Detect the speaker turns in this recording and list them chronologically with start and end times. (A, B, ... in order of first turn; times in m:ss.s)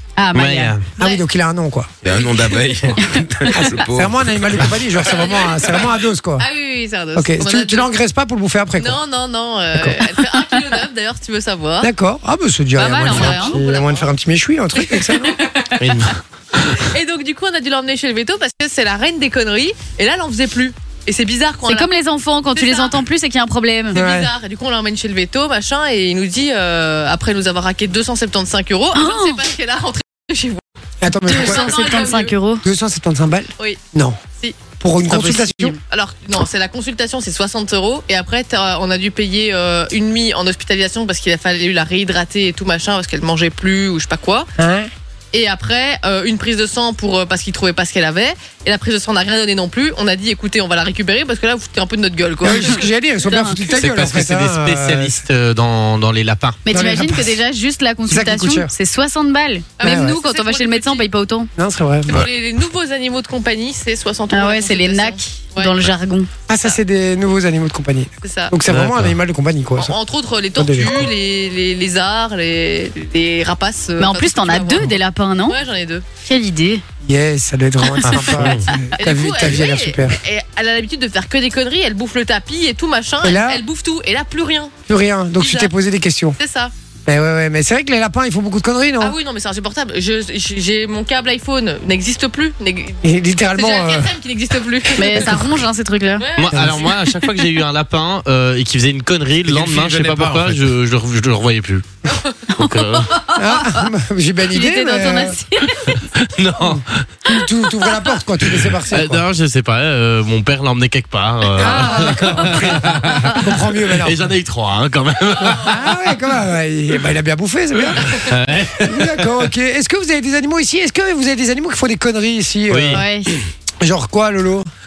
0:00.2-0:00.8 A
0:00.4-0:00.9 B
0:01.0-0:01.9 C
0:02.0-0:05.0 D
0:03.0-0:03.5 A
0:03.5-0:06.5 C
0:05.1-0:07.9 E
0:07.1-0:09.0 C
0:08.8-0:11.9 E
0:09.7-0:10.0 C
0:11.8-0:15.4 C
0:12.8-0:13.6 A
0:13.0-0:14.1 E
0:14.8-0:15.8 E
0:15.8-0:16.8 B
0:16.7-0:21.9 E
0:21.7-0:24.0 A
0:22.6-0:23.0 E
0:23.9-0:30.6 E
0:23.9-0:24.3 C
0:28.9-0:29.4 A
0:31.0-0:32.1 C
0:31.2-0:32.3 E
0:31.3-0:32.6 A
0:32.6-0:34.2 C
0:34.8-0:35.8 C
0:35.1-0:35.8 A
0:35.9-0:44.5 E
0:44.6-0:44.9 C
0:45.3-0:52.9 E
0:52.4-0:55.2 C
0:53.2-0:53.6 A
0:53.7-0:56.6 B
0:56.6-1:01.5 A
0:56.7-0:57.4 C
0:58.1-0:58.7 C
0:59.8-1:01.1 E
0:59.8-1:00.2 C
1:01.6-1:02.2 C
1:02.1-1:05.8 E
1:04.3-1:06.3 A
1:06.5-1:09.9 C
1:08.2-1:08.6 E
1:08.7-1:09.2 B
1:09.8-1:16.0 E
1:10.6-1:11.1 C
1:14.0-1:15.6 A
1:16.2-1:16.8 A
1:17.0-1:20.2 C
1:18.0-1:18.4 A
1:18.0-1:18.7 B
1:19.0-1:24.7 E
1:23.2-1:23.6 C
1:24.9-1:26.4 C
1:25.4-1:25.7 E
1:26.4-1:26.7 E
1:27.1-1:29.2 C
1:29.0-1:35.4 E
1:33.0-1:34.1 C
1:35.0-1:36.2 A
1:35.0-1:35.4 C
1:36.2-1:37.0 E
1:36.4-1:41.8 B
1:36.5-1:36.9 C
1:39.4-1:40.7 D
1:42.1-1:42.4 E
1:42.6-1:43.1 B
1:42.6-1:43.9 A
1:43.4-1:45.4 C
1:44.5-1:46.0 A
1:45.9-1:47.1 B
1:46.6-1:49.2 C
1:48.9-1:55.8 B
1:51.6-1:54.3 C
1:55.6-1:58.3 C
1:58.1-1:59.3 B
1:58.8-2:03.0 C
2:02.7-2:03.0 B
2:02.9-2:03.3 A
2:03.8-2:04.7 C